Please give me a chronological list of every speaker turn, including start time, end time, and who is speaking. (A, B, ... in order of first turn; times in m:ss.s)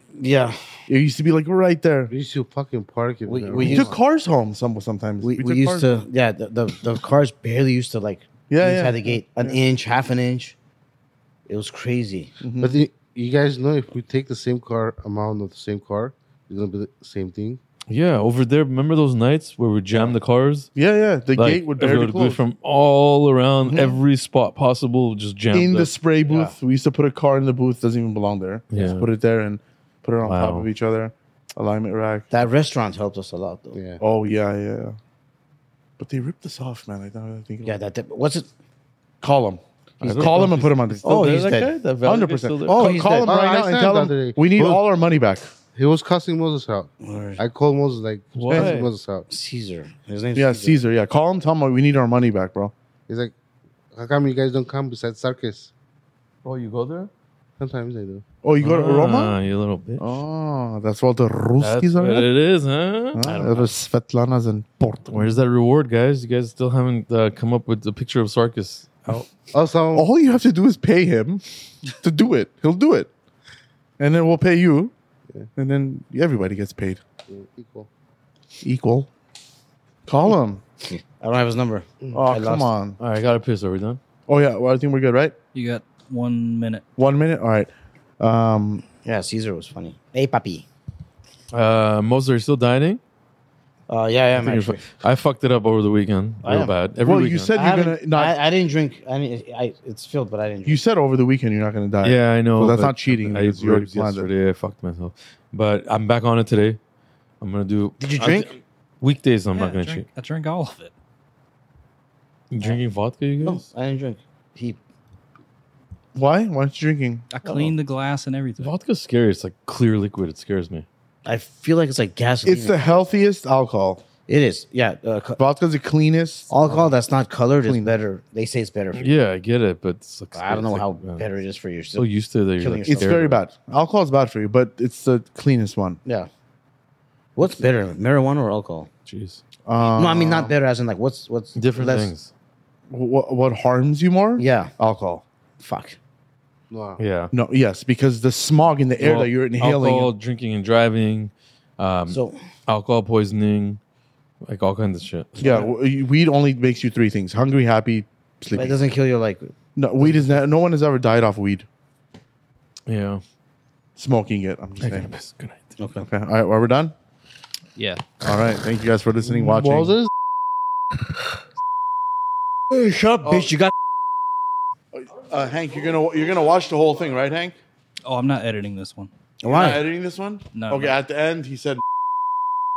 0:00.2-0:00.8 A
0:00.9-0:02.1 B
0:02.1-0:04.0 C
0:03.3-0:03.9 A
0:03.7-0:05.9 B
0:05.2-0:10.6 A
0:08.5-0:09.6 B
0:11.5-0:12.4 A
0:12.4-0:12.8 B
0:12.6-0:17.6 C
0:17.9-0:20.7 D
0:20.8-0:22.4 B
0:21.4-0:26.6 D
0:25.5-0:32.3 B
0:28.7-0:29.1 D
0:30.2-0:30.7 D
0:32.3-0:33.8 A
0:33.7-0:34.0 C
0:34.0-0:35.0 B
0:36.0-0:37.8 B
0:37.6-0:38.5 A
0:39.2-0:41.1 B
0:40.0-0:43.1 D
0:40.0-0:40.4 A
0:41.0-0:41.7 A
0:42.0-0:45.5 B
0:42.7-0:43.3 A
0:43.2-0:44.8 C
0:45.7-0:49.3 C
0:47.0-0:47.4 A
0:48.4-0:48.9 D
0:49.3-0:50.8 A
0:50.4-0:52.7 B
0:53.1-0:53.4 C
0:53.9-0:55.7 C
0:56.4-0:57.1 D
0:57.6-0:58.2 C
0:58.4-0:59.4 B
0:58.6-1:00.2 D
1:00.0-1:02.3 B
1:01.6-1:03.7 D
1:03.1-1:05.4 B
1:05.1-1:09.3 D
1:09.5-1:10.1 C
1:09.9-1:13.1 B
1:14.0-1:14.9 B
1:15.6-1:17.0 B
1:17.3-1:17.9 C
1:18.6-1:19.1 B
1:20.1-1:20.6 B
1:20.9-1:22.7 A
1:22.1-1:23.0 B
1:23.0-1:24.0 D
1:24.3-1:25.4 B
1:25.5-1:26.8 E
1:27.0-1:28.9 B
1:29.0-1:30.7 A
1:31.5-1:33.0 D
1:33.9-1:34.9 A
1:34.4-1:37.5 D
1:36.4-1:36.8 A
1:37.0-1:38.4 B
1:37.5-1:40.8 A
1:40.6-1:44.3 B
1:42.0-1:46.8 D
1:47.4-1:50.0 D
1:48.0-1:48.6 A
1:49.6-1:50.9 E
1:52.5-1:53.7 D
1:53.4-1:54.8 A
1:56.1-1:57.3 B
1:57.3-1:58.7 E
1:57.5-1:57.7 A
1:58.6-2:00.9 D
2:01.2-2:03.0 A
2:02.4-2:04.0 B
2:04.3-2:05.4 A
2:05.4-2:07.0 B
2:06.5-2:09.1 A
2:07.6-2:08.0 B
2:08.9-2:11.3 D
2:10.3-2:13.2 A
2:12.0-2:13.4 D
2:12.9-2:16.0 B
2:16.0-2:16.3 A
2:17.4-2:18.9 A
2:19.1-2:19.4 D
2:19.7-2:20.5 B
2:19.8-2:22.1 A
2:21.6-2:22.3 D
2:22.9-2:25.2 B
2:24.4-2:24.7 A
2:25.6-2:26.0 A
2:26.7-2:27.0 C
2:27.0-2:27.3 D
2:27.3-2:30.1 B
2:29.0-2:33.8 D
2:32.1-2:32.4 A
2:34.4-2:35.7 D
2:35.4-2:35.7 A
2:35.4-2:38.8 B
2:38.5-2:39.5 A
2:39.8-2:41.7 B
2:42.9-2:43.2 D
2:44.0-2:45.1 B
2:44.8-2:45.8 D
2:45.8-2:46.1 A
2:46.0-2:46.9 B
2:47.8-2:48.0 E
2:48.2-2:50.0 B
2:52.7-2:53.7 A
2:53.2-2:53.6 B
2:54.9-2:57.6 B
2:58.0-2:59.1 E
2:59.4-2:59.8 A
2:59.5-3:01.8 B
3:00.5-3:01.0 E